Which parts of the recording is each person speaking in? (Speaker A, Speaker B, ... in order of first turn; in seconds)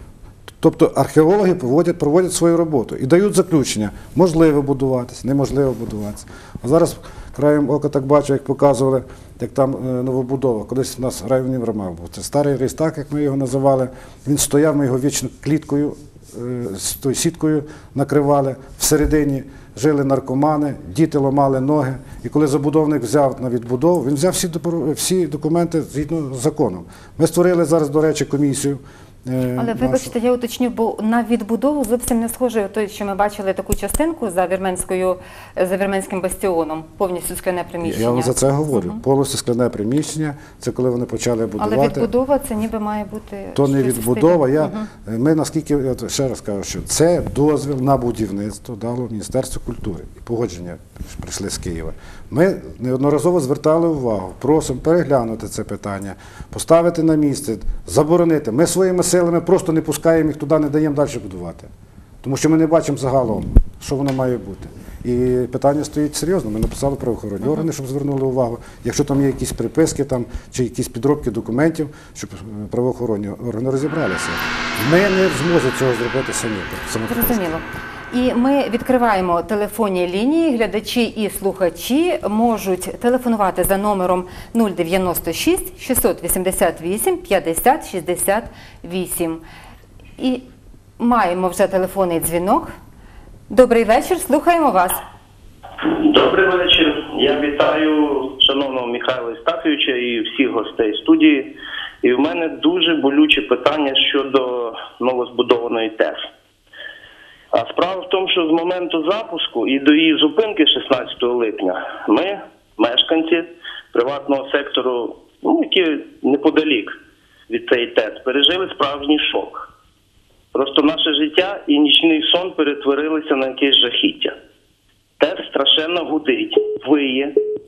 Speaker A: 0.6-30.1, 37.8-42.1, 43.5-61.7, 62.2-77.5
Speaker B: 29.6-39.0, 41.6-44.9, 77.1-89.4, 90.2-90.4, 91.0-92.7, 93.5-95.0
Speaker C: 95.8-101.5, 102.0-106.2, 107.5-117.0, 117.5-119.7, 120.5-124.3, 125.2-127.3